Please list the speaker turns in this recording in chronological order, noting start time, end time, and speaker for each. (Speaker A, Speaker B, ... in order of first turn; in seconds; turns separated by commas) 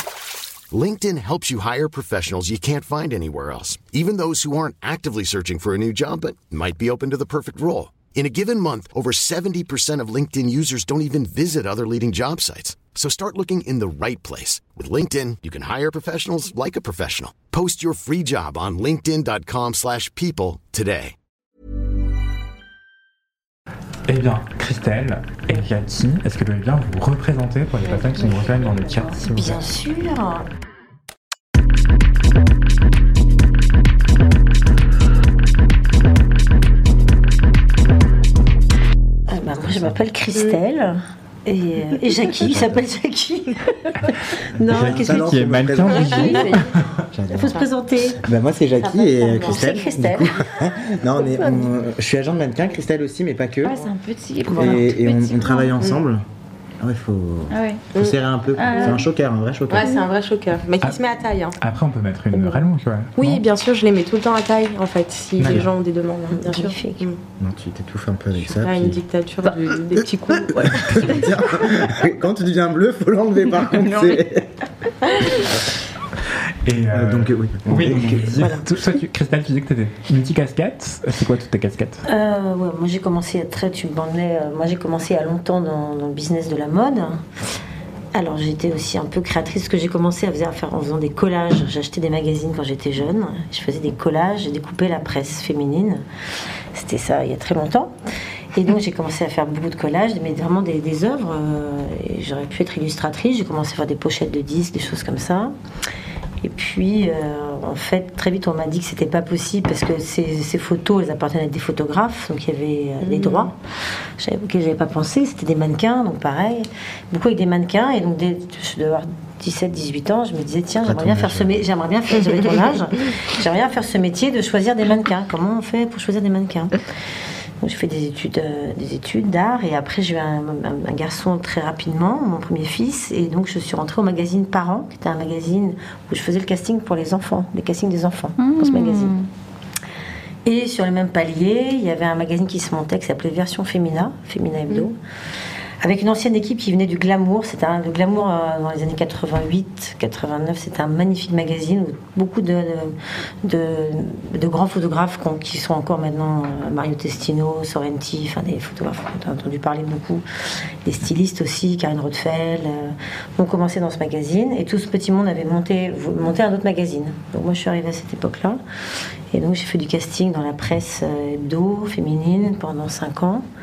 Speaker A: 0.7-21.1, Speaker B: 24.1-29.7, Speaker C: 27.8-30.5, Speaker C: 39.3-46.7, Speaker D: 39.6-40.0, Speaker D: 42.4-42.8, Speaker D: 44.6-46.6, Speaker B: 44.7-46.9, Speaker D: 47.1-53.9, Speaker C: 47.3-48.2, Speaker E: 48.8-50.5, Speaker C: 49.4-50.4, Speaker C: 51.2-51.6, Speaker F: 53.6-55.8, Speaker C: 54.5-54.8, Speaker D: 54.5-56.2, Speaker D: 56.8-59.9, Speaker F: 57.5-57.8, Speaker E: 58.0-59.0, Speaker F: 58.6-59.0, Speaker E: 59.7-61.5, Speaker B: 61.6-63.4, Speaker E: 62.3-62.6, Speaker E: 63.2-67.2, Speaker B: 65.4-65.7, Speaker C: 66.3-67.1, Speaker D: 67.4-69.0, Speaker E: 68.4-71.3, Speaker D: 70.5-74.5, Speaker F: 73.7-74.2, Speaker B: 76.6-82.0, Speaker D: 76.9-78.6, Speaker C: 78.4-78.6, Speaker C: 82.0-87.2, Speaker C: 88.1-96.0, Speaker C: 96.7-97.9, Speaker C: 98.5-105.5, Speaker C: 106.4-113.5, Speaker E: 113.0-113.5, Speaker C: 114.2-126.8, Speaker D: 120.8-121.6, Speaker C: 127.6-139.1, Speaker F: 138.4-139.3, Speaker C: 140.4-145.0, Speaker C: 145.8-160.2, Speaker C: 160.8-168.6, Speaker C: 169.3-173.4